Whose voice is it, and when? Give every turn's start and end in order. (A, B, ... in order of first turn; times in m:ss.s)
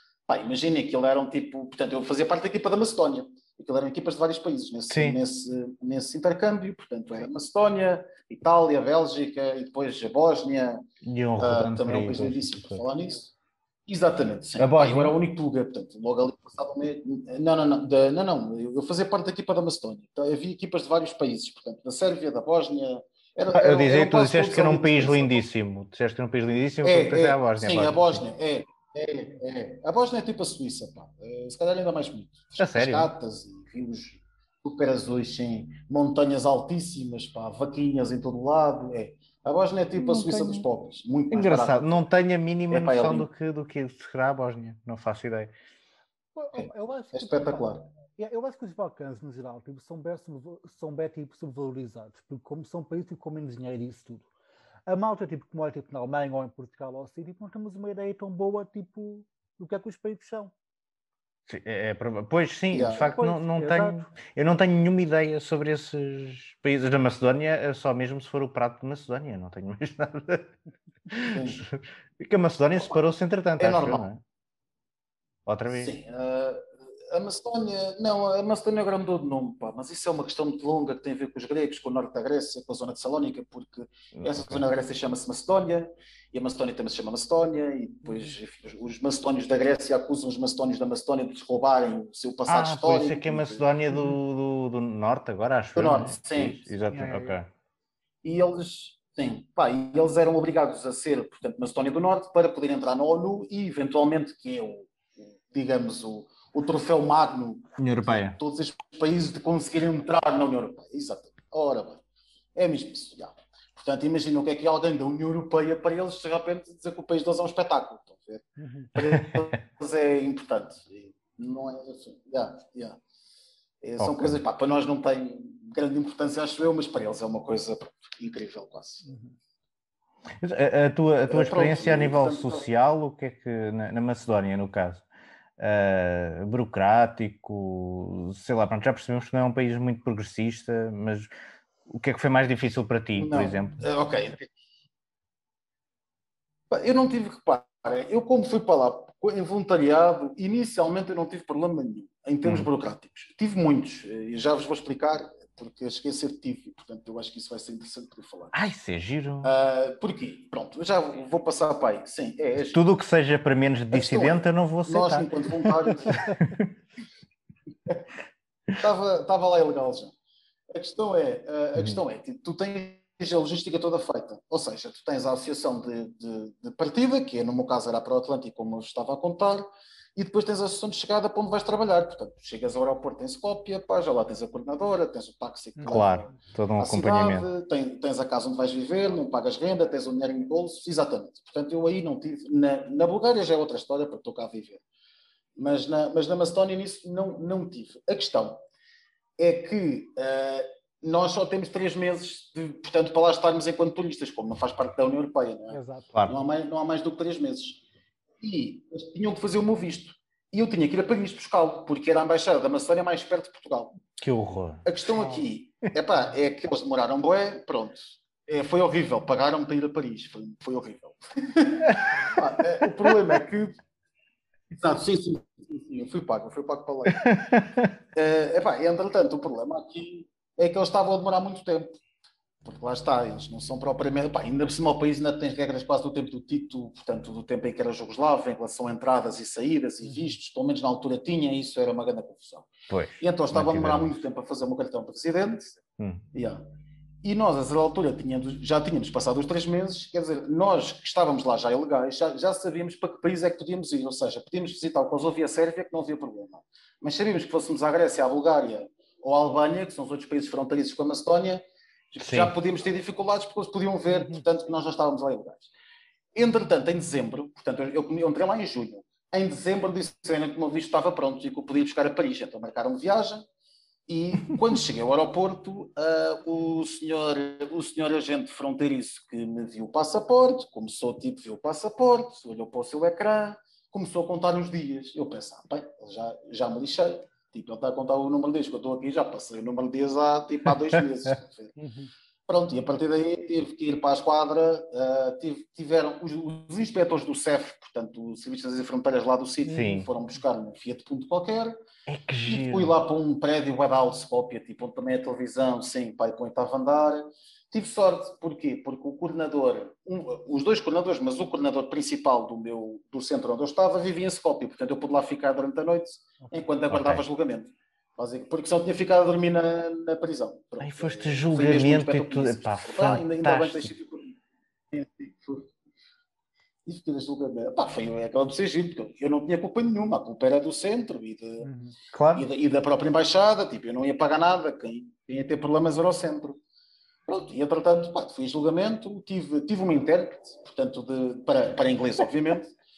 0:00.3-0:10.8 A
0:04.9-0:05.2 B
0:11.0-0:12.8 B
0:11.4-0:13.3 A
0:13.9-0:25.4 A
0:14.6-0:15.2 B
0:23.5-0:28.2 B
0:26.8-0:42.0 A
0:32.6-0:33.1 B
0:40.0-0:40.6 B
0:41.3-0:45.5 B
0:42.7-0:43.3 A
0:46.3-0:54.3 C
0:46.6-0:47.8 A
0:54.9-1:00.5 C
1:01.5-1:10.5 B
1:02.7-1:03.1 A
1:03.0-1:04.0 C
1:11.1-1:14.2 B
1:11.2-1:11.6 A
1:13.6-1:14.0 A
1:15.4-1:15.9 B
1:15.7-1:33.6 A
1:24.2-1:24.6 B
1:28.0-1:28.3 C
1:32.5-1:37.5 B
1:35.7-1:36.6 A
1:36.9-1:37.4 C
1:38.2-1:52.0 A
1:47.8-1:48.4 B
1:52.5-2:03.0 A
1:58.6-1:58.9 C
1:59.1-1:59.4 B
2:03.8-2:09.1 A
2:04.0-2:04.4 B
2:09.0-2:09.3 C
2:10.4-2:15.0 B
2:11.3-2:12.6 A
2:15.6-2:21.3 B
2:21.9-2:23.8 B
2:23.2-2:24.5 A
2:26.7-2:38.5 A
2:32.4-2:32.7 B
2:38.5-2:39.5 B
2:39.4-2:42.8 A
2:42.7-2:46.7 B
2:43.9-2:46.3 A
2:48.8-2:50.1 A
2:50.7-3:14.8 A
2:51.8-2:52.0 B
3:05.8-3:06.1 C
3:05.8-3:07.5 B
3:15.6-3:18.6 A
3:19.4-3:27.8 A
3:25.7-3:26.1 C
3:28.4-3:34.0 A
3:34.2-3:34.8 B
3:34.8-3:43.8 A
3:35.1-3:35.4 C
3:41.9-3:42.1 B
3:44.7-3:47.2 A
3:47.1-3:47.9 B
3:48.1-3:52.0 A
3:52.6-4:05.8 A
4:00.0-4:00.3 C
4:02.9-4:04.1 B
4:06.0-4:06.2 B
4:06.3-4:06.6 A
4:07.2-4:25.7 A
4:22.2-4:22.5 B
4:24.1-4:24.4 C
4:26.3-4:33.4 A
4:34.1-4:51.7 A
4:51.8-4:52.1 C
4:52.5-5:01.8 A
4:59.6-5:00.1 C
4:59.7-5:00.1 B
5:02.1-5:03.0 B
5:02.5-5:24.3 A
5:16.9-5:17.2 B
5:20.8-5:23.9 B
5:24.9-5:25.7 A
5:26.8-5:31.7 A
5:31.6-5:31.9 C
5:32.1-5:32.5 B
5:32.3-5:36.6 A
5:37.3-5:42.7 A